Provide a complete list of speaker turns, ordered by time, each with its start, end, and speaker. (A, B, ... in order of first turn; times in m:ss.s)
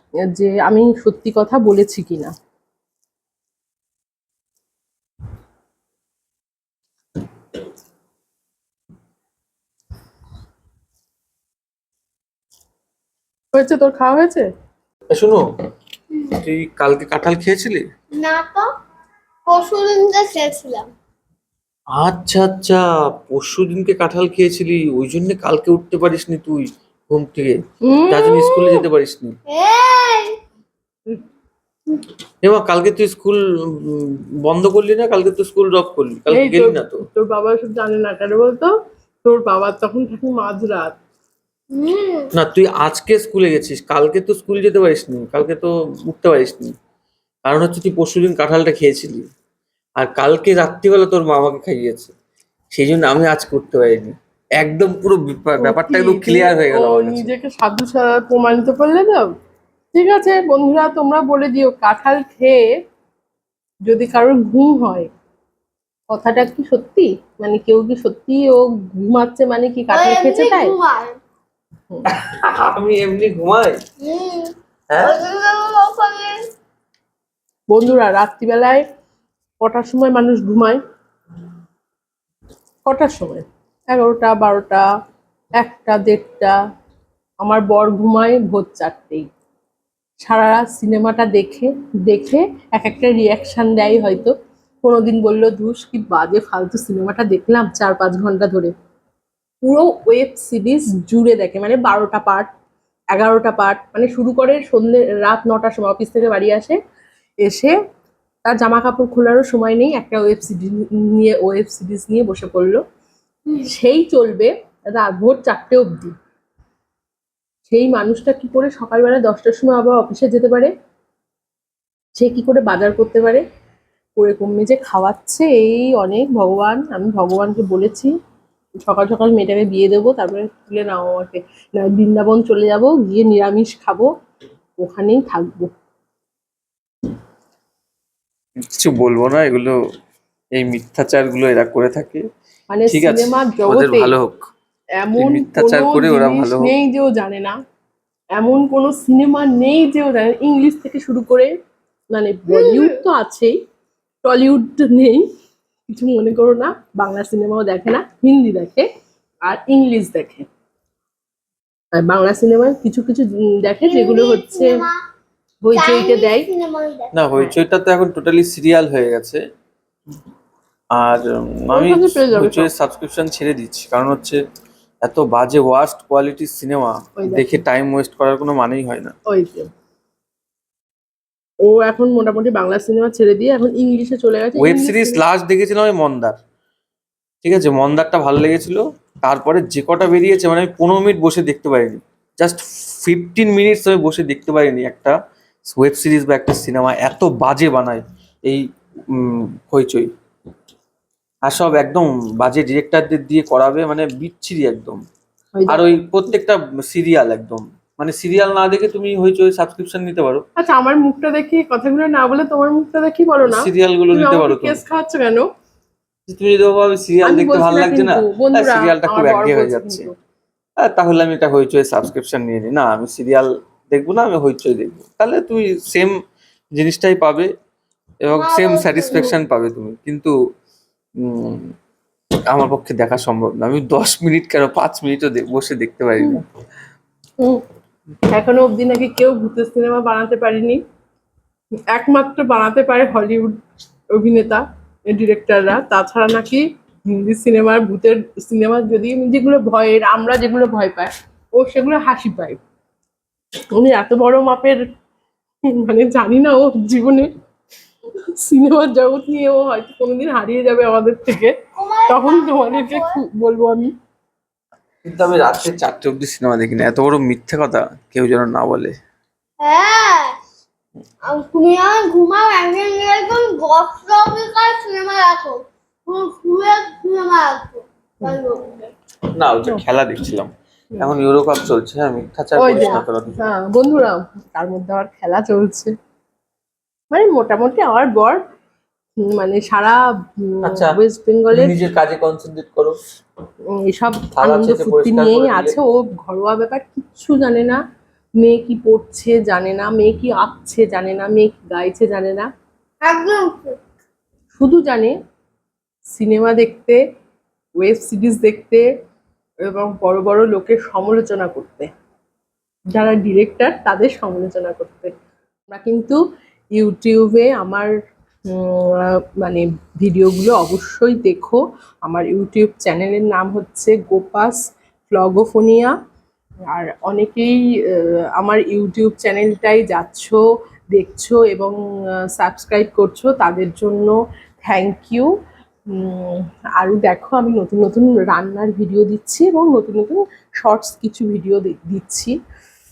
0:00.3-0:02.3 A
0:13.5-0:14.5 A
0:15.1-0:15.4 B
0:16.1-0:16.4 C
0:16.4-0:17.9 B
0:18.1-0:18.7 C
0:19.5-0:20.9 C
0:21.9-0:29.4 B
0:27.8-0:28.8 A
0:29.5-0:30.3 C
0:32.4-0:37.0 B
0:36.3-0:38.7 A
0:39.2-0:41.0 A
0:41.7-0:42.3 C
0:42.3-0:46.7 B
0:47.5-0:49.3 B
0:50.0-0:52.1 B
0:52.7-0:57.3 B
0:55.6-0:59.3 A
0:59.9-1:02.6 A
1:03.9-1:05.1 A
1:06.1-1:10.8 A
1:09.9-1:11.2 C
1:12.1-1:13.8 B
1:14.0-1:16.4 C
1:14.9-1:15.2 B
1:17.7-1:18.8 A
1:19.6-1:20.8 A
1:22.9-1:24.8 A
1:25.6-1:26.6 A
1:27.4-1:29.3 A
1:30.2-1:34.3 A
1:34.8-1:38.7 A
1:39.6-1:42.5 A
1:43.1-1:46.8 A
1:47.4-1:47.7 A
1:48.4-1:52.8 A
1:53.6-1:56.1 A
1:57.7-2:00.7 A
2:02.2-2:03.4 A
2:04.2-2:08.1 A
2:08.8-2:14.1 A
2:14.8-2:15.7 A
2:18.6-2:19.8 B
2:20.6-2:22.2 B
2:22.7-2:24.1 A
2:22.9-2:24.4 B
2:25.0-2:27.6 A
2:25.2-2:26.7 B
2:28.4-2:31.5 A
2:32.1-2:33.5 A
2:34.2-2:35.2 A
2:35.9-2:38.9 A
2:39.4-2:40.4 A
2:41.9-2:44.9 A
2:43.8-2:45.0 C
2:45.6-2:46.5 A
2:45.7-2:47.1 C
2:47.1-2:49.4 B
2:51.0-2:54.4 B
2:51.7-2:52.7 A
2:55.0-2:59.1 B
2:57.2-2:57.6 A
2:59.3-2:59.7 A
3:01.6-3:05.2 A
3:04.6-3:06.4 B
3:07.4-3:20.1 B
3:21.5-3:25.0 B
3:25.5-3:26.0 A
3:25.7-3:30.4 B
3:30.6-3:35.4 A
3:33.5-3:34.8 B
3:36.3-3:40.1 B
3:37.2-3:40.1 A
3:40.8-3:46.1 B
3:46.8-3:47.5 B
3:48.2-3:50.3 B
3:48.3-3:49.3 C
3:51.2-3:51.7 B
3:52.5-3:56.4 B
3:58.3-4:00.8 A
4:01.9-4:03.6 A
4:04.1-4:12.6 A
4:13.8-4:14.8 A
4:15.7-4:17.3 A
4:18.3-4:21.5 A
4:21.8-4:23.2 C
4:22.1-4:23.9 A
4:25.0-4:29.0 B
4:29.6-4:30.4 C
4:31.2-4:38.9 C
4:39.3-4:43.4 B
4:42.6-4:45.9 A
4:42.7-4:43.0 C
4:47.1-4:48.4 A
4:49.3-4:51.7 A
4:51.5-4:53.0 B
4:53.9-4:57.8 A
4:54.4-4:55.8 B
4:58.4-5:02.5 A
5:03.0-5:03.8 C
5:04.6-5:05.1 A
5:06.1-5:07.0 A
5:07.8-5:08.8 A
5:09.6-5:11.9 A
5:12.9-5:15.1 A
5:15.7-5:16.2 A
5:16.8-5:17.9 A
5:18.5-5:25.9 A
5:26.7-5:30.4 A
5:30.9-5:31.7 A
5:32.4-5:35.3 A
5:35.9-5:42.4 A